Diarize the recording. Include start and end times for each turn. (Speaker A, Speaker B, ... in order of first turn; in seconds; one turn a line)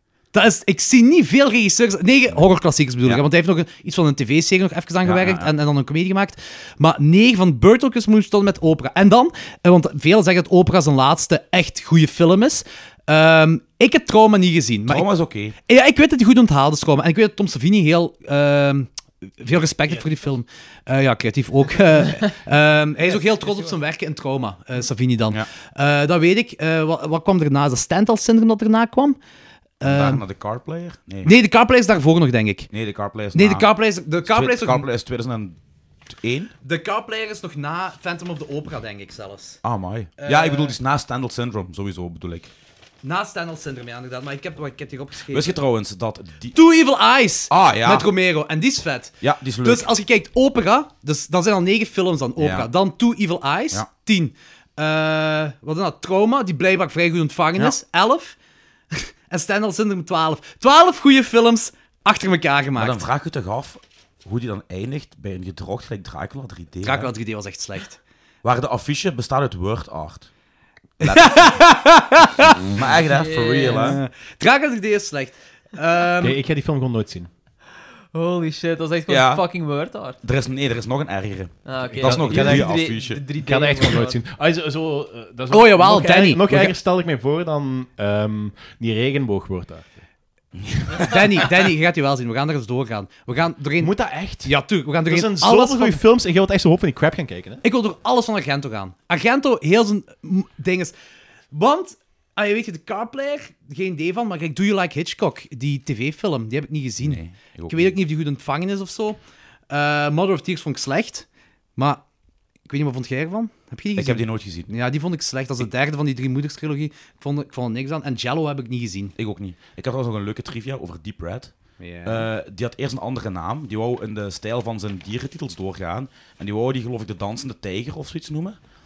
Speaker A: 0.3-29.2
Speaker B: 5.0-5.5
Speaker B: 14.9-15.6
Speaker A: 29.8-30.2
Speaker B: 29.9-31.3
Speaker A: 31.2-32.7
Speaker B: 32.7-35.6
Speaker A: 33.3-34.9
Speaker B: 36.1-36.5
Speaker A: 36.6-39.6
Speaker B: 39.6-42.5
Speaker A: 40.2-40.8
Speaker A: 43.0-45.6
Speaker B: 45.3-46.6
Speaker A: 46.5-58.4
Speaker B: 47.5-48.1
Speaker B: 49.2-49.9
Speaker B: 52.4-52.7
Speaker A: 58.9-63.0
Speaker B: 62.8-67.1
Speaker A: 66.8-68.0
Speaker B: 68.4-70.3
Speaker B: 71.0-71.7
Speaker A: 71.0-72.6
Speaker B: 72.7-74.0
Speaker C: 73.1-74.0
Speaker A: 73.7-76.4
Speaker D: 76.2-77.3
Speaker C: 78.1-80.2
Speaker B: 79.1-79.5
Speaker B: 80.2-83.3
Speaker C: 81.7-84.2
Speaker D: 81.8-90.0
Speaker A: 85.5-86.8
Speaker B: 90.6-91.5
Speaker A: 91.0-96.0
Speaker D: 93.8-97.6
Speaker A: 97.6-100.9
Speaker A: 101.5-109.2
Speaker B: 107.0-108.0
Speaker A: 109.7-112.0
Speaker A: 112.7-119.1
Speaker B: 114.0-114.7
Speaker B: 119.2-121.5
Speaker A: 121.8-122.3
Speaker B: 122.0-128.6